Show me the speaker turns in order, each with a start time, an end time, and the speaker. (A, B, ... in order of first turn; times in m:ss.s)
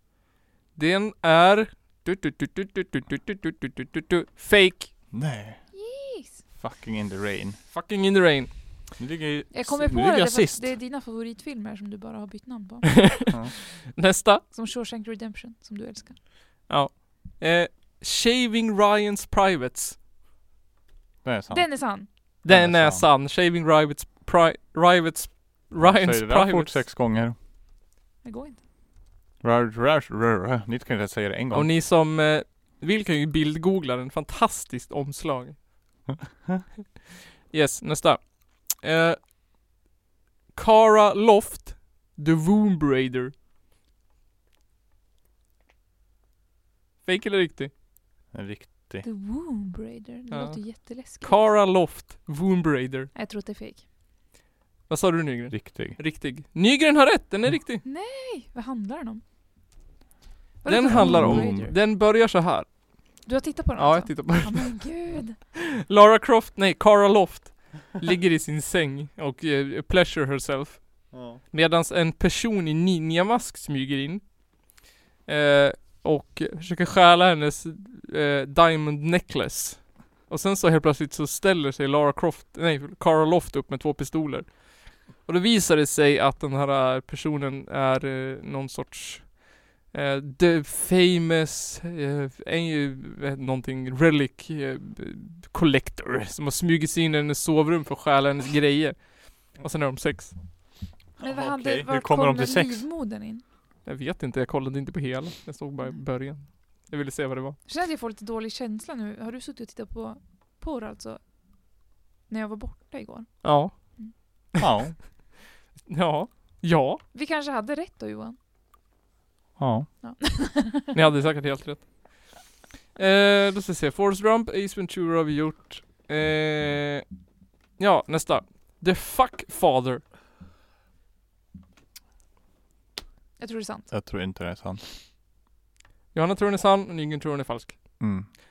0:00.8-0:04.9 A
0:05.1-0:05.6 B
0:05.7-0:06.4 C
0:06.5-0:07.6 B
0:07.7-0:08.5 A
0:09.0-0:10.8 B
0:09.5-0:13.3 C
0:13.2-0:13.5 B
0:13.9-0:14.4 A
0:14.4-0:16.2 C
0:16.7-0:20.0 A
0:21.2-0:23.1 B
0:21.5-0:22.4 C
0:22.4-0:26.9 A
0:25.8-0:27.4 B
0:28.2-0:28.6 C
0:29.4-0:31.8 B
0:31.5-0:36.0 A
0:37.5-0:39.2 A
0:40.6-0:43.3 A
0:47.0-0:47.7 A
0:48.3-0:49.1 B
0:49.0-0:51.6 C
0:50.3-0:53.1 A
0:53.1-0:53.9 C
0:54.9-0:57.8 A
0:55.5-0:56.0 B
0:57.8-0:59.2 C
1:00.6-1:01.8 C
1:00.6-1:02.7 A
1:01.0-1:01.4 B
1:03.2-1:05.4 C
1:03.8-1:04.9 A
1:05.9-1:14.4 A
1:11.1-1:11.4 B
1:15.3-1:40.4 A
1:41.2-1:42.9 B
1:41.2-1:43.4 C
1:43.8-1:47.6 A
1:47.6-1:51.3 C
1:52.3-1:54.1 C
1:53.4-1:54.4 A
1:54.6-1:55.0 B
1:55.9-1:57.0 A
1:57.1-1:58.4 C
1:59.6-1:59.9 B
2:00.0-2:00.9 C
2:00.9-2:02.4 A
2:03.0-2:07.1 A
2:07.8-2:10.0 A
2:13.4-2:13.9 C
2:13.9-2:14.8 B
2:16.1-2:18.1 A
2:18.0-2:18.3 B